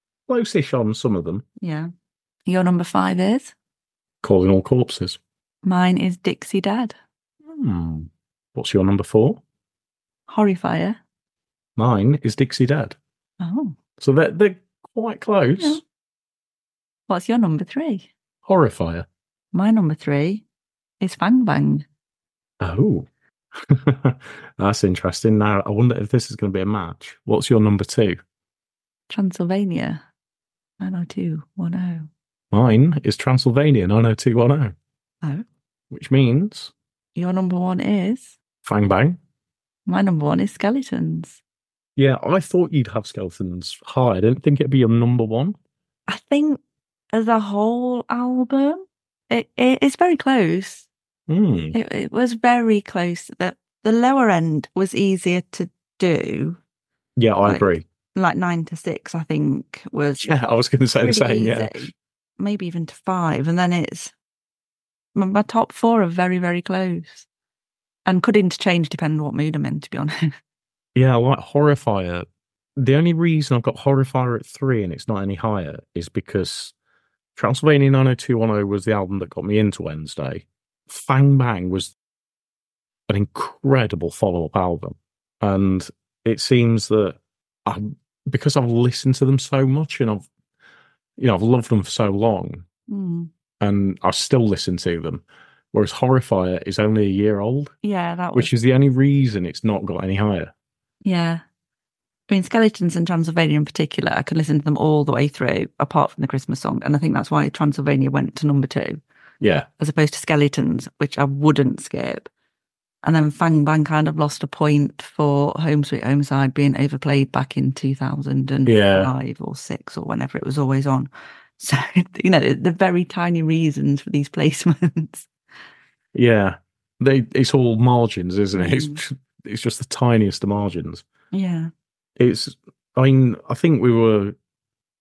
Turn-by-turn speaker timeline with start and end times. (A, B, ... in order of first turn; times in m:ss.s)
0:00.3-0:01.4 A
0:01.6-0:01.9 B
0:02.5-0:03.5 B
0:04.2-0:05.2 A
0:05.6-0:07.0 B
0:07.5-0:09.4 A
0:10.3-0:11.0 B
0:11.8-0:13.0 A
0:13.4-0:13.8 B
0:14.0-0:15.8 A
0:17.1-0:18.1 B
0:18.5-0:19.1 A
0:19.5-0:20.4 B
0:21.0-0:21.8 B
0:22.6-0:28.2 A
0:29.1-0:30.0 B
0:30.8-0:32.1 B
0:32.5-0:34.7 A
0:35.9-0:36.7 A
0:37.2-0:38.4 B
0:38.6-0:39.2 A
0:39.9-0:41.4 B
0:42.0-0:45.6 A
0:46.1-0:46.6 B
0:47.1-0:50.9 B
0:51.3-0:51.8 A
0:51.7-0:56.6 B
0:57.2-0:57.8 A
0:57.4-1:00.3 B
1:00.2-1:01.9 A
1:01.0-1:04.1 B
1:05.2-1:07.3 B
1:08.1-1:10.3 B
1:11.0-1:16.7 A
1:17.4-1:21.9 A
1:23.1-1:30.3 A
1:31.2-1:32.6 A
1:32.9-1:33.3 B
1:33.6-1:37.7 A
1:37.8-1:38.5 B
1:38.3-1:40.5 A
1:41.0-1:41.4 B
1:42.3-1:49.0 B
1:49.4-1:49.7 A
1:49.8-1:52.3 B
1:53.0-2:05.3 B
1:58.7-1:59.1 A
2:06.1-2:11.0 A
2:08.5-2:09.0 B
2:11.3-2:11.7 B
2:12.2-2:14.4 A